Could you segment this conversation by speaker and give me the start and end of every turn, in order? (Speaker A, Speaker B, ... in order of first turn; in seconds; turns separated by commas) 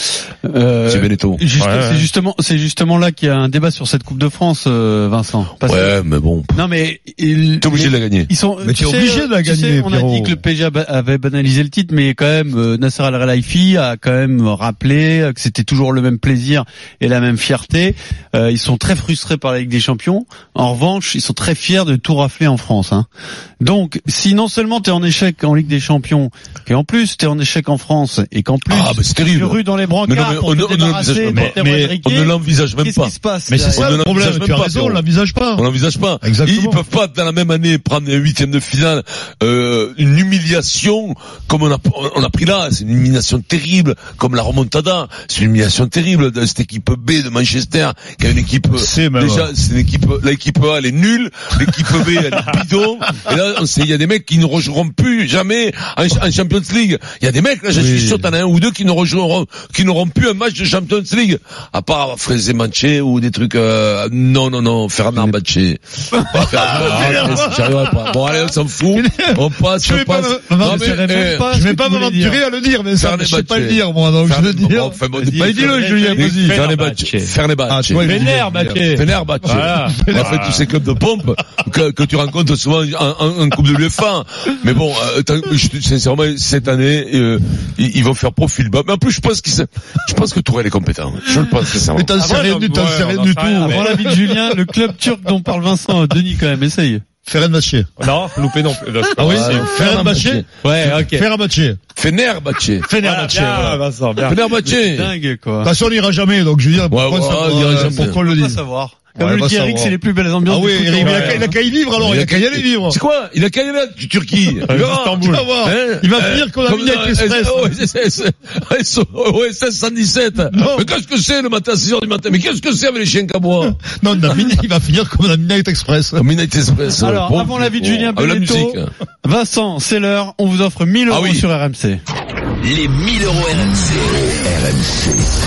Speaker A: 0.4-6.0, Speaker B: 0.9-1.4, Speaker C: 1.6-2.1, Speaker B: 5.7-6.6, Speaker A: 6.5-23.1, Speaker B: 7.6-8.3, Speaker D: 8.6-10.4, Speaker A: 23.6-34.3, Speaker B: 28.7-33.1, Speaker D: 31.3-32.0, Speaker D: 33.5-35.6, Speaker B: 33.7-35.0, Speaker B: 35.5-71.5, Speaker D: 36.2-36.8, Speaker D: 48.7-49.5, Speaker D: 57.7-58.3, Speaker D: 66.3-68.2, Speaker C: 66.6-67.5, Speaker D: 68.9-76.6, Speaker A: 70.6-72.4, Speaker B: 73.0-78.3, Speaker A: 75.1-76.4, Speaker C: 76.5-77.3, Speaker D: 77.7-78.9, Speaker C: 78.0-80.6, Speaker B: 78.9-92.1, Speaker D: 79.4-80.6, Speaker D: 91.9-94.6, Speaker C: 92.2-93.9, Speaker A: 93.6-97.0, Speaker D: 97.2-97.9, Speaker C: 98.0-99.7, Speaker D: 99.2-101.8, Speaker B: 99.2-100.9, Speaker C: 100.6-101.2, Speaker B: 102.0-102.9, Speaker D: 102.8-103.8, Speaker C: 103.0-104.4, Speaker A: 103.3-103.7, Speaker B: 104.2-105.1, Speaker A: 104.6-105.7, Speaker D: 105.6-108.6, Speaker B: 106.9-108.2, Speaker A: 107.8-111.5, Speaker D: 109.2-113.0, Speaker C: 111.0-111.4, Speaker B: 112.0-123.8, Speaker C: 114.7-115.4, Speaker D: 114.7-117.8, Speaker D: 120.5-120.9, Speaker D: 123.7-126.2, Speaker B: 126.2-128.9, Speaker A: 127.0-132.0, Speaker B: 131.1-131.4, Speaker E: 132.6-135.2